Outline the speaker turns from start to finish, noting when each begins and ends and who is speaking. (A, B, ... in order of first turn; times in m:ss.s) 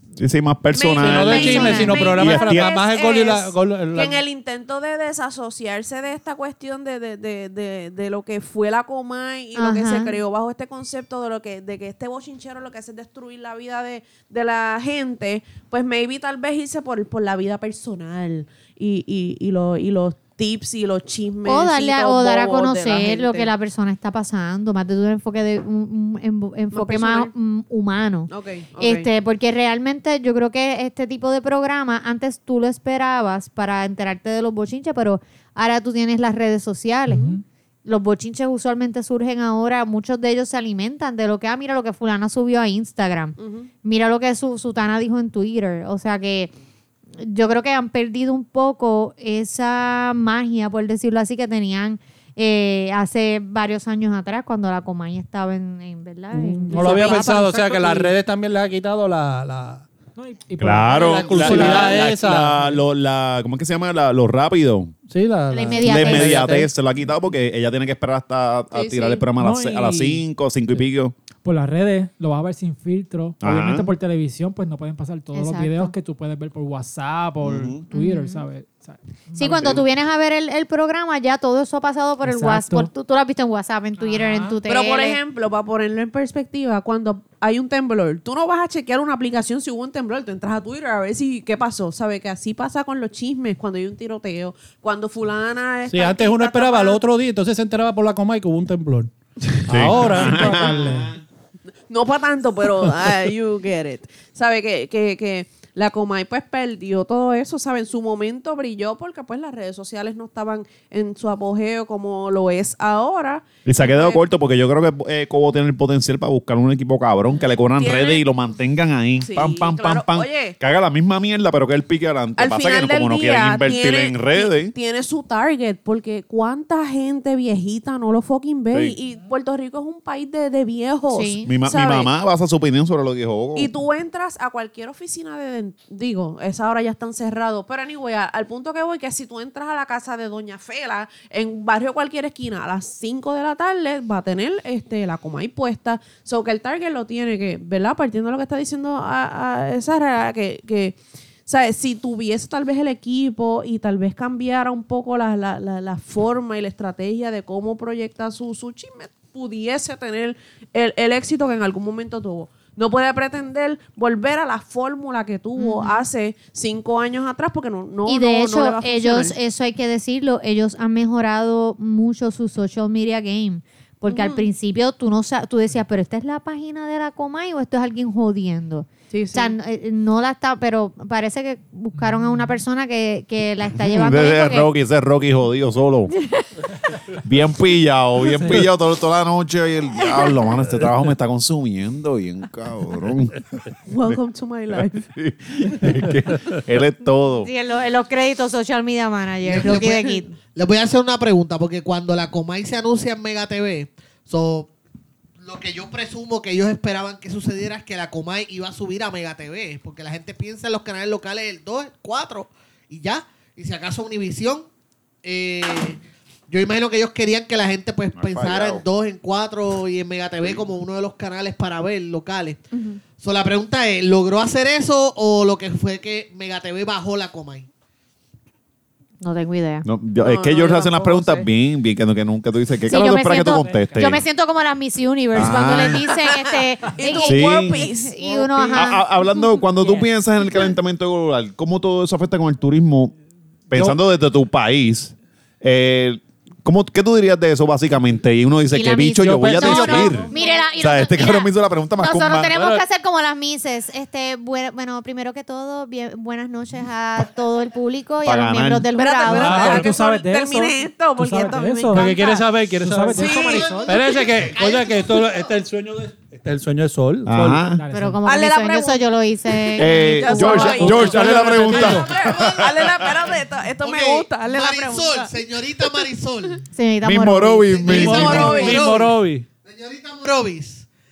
0:00.2-0:02.7 A
0:00.8-0:23.5 B
0:01.0-0:04.2 C
0:01.3-0:02.2 D
0:09.6-0:10.2 D
0:21.4-0:46.5 D
0:26.7-0:27.3 B
0:28.3-0:29.1 B
0:37.1-0:37.4 E
0:43.4-0:43.7 B
0:47.2-0:57.6 D
0:56.3-0:59.9 C
0:56.7-0:58.1 E
1:00.2-1:02.8 E
1:00.6-1:04.9 A
1:01.0-1:02.6 C
1:05.1-1:06.7 C
1:05.5-1:06.5 D
1:05.8-1:11.1 A
1:08.7-1:09.3 B
1:09.4-1:10.2 E
1:11.4-1:19.8 E
1:13.4-1:13.9 A
1:15.3-1:15.9 D
1:17.4-1:17.8 A
1:17.9-1:18.4 D
1:19.4-1:25.2 D
1:19.6-1:19.8 A
1:22.2-1:22.9 E
1:24.0-1:24.6 E
1:24.7-1:37.0 B
1:35.9-1:41.2 C
1:39.7-1:41.1 A
1:40.2-1:40.7 E
1:41.9-1:54.2 B
1:53.7-2:04.7 A
1:57.8-1:58.2 B
1:59.2-2:00.6 B
2:02.4-2:12.1 B
2:11.1-2:11.5 D
2:11.5-2:13.7 A
2:13.6-2:49.4 B
2:45.6-2:46.0 D
2:48.1-3:04.7 D
2:54.1-2:54.5 B
2:59.1-2:59.5 B
3:02.0-3:02.5 E
3:03.8-3:06.1 A
3:07.2-3:14.2 A
3:13.9-3:15.1 B
3:14.7-3:17.5 A
3:17.4-3:20.4 D
3:19.4-3:24.7 F
3:25.4-3:34.7 F
3:35.2-3:42.6 F
3:38.2-3:38.8 A
3:42.7-3:43.0 D
3:43.2-3:47.7 F
3:49.2-3:49.9 D
3:49.8-3:54.2 A
3:50.2-3:51.5 B
3:52.9-3:59.0 D
3:53.4-3:54.2 E
3:55.3-3:56.1 A
3:56.2-3:58.9 B
3:57.2-3:57.9 A
3:58.8-4:03.1 A
4:03.7-4:12.5 A
4:08.7-4:19.8 D
4:09.2-4:10.2 C
4:10.2-4:10.7 B
4:12.5-4:12.8 C
4:18.2-4:18.9 A
4:19.0-4:22.4 B
4:19.3-4:19.9 C
4:19.4-4:24.0 E
4:21.9-4:27.6 C
4:23.2-4:23.8 B
4:23.2-4:25.5 F
4:27.3-4:27.8 A
4:27.7-4:28.2 E
4:27.9-4:31.3 D
4:28.2-4:36.1 B
4:29.8-4:32.8 A
4:30.7-4:32.1 C
4:31.8-4:36.7 F
4:36.7-4:37.9 D
4:37.0-4:38.8 A
4:37.7-4:40.9 F
4:37.9-4:38.9 B
4:37.9-4:39.5 C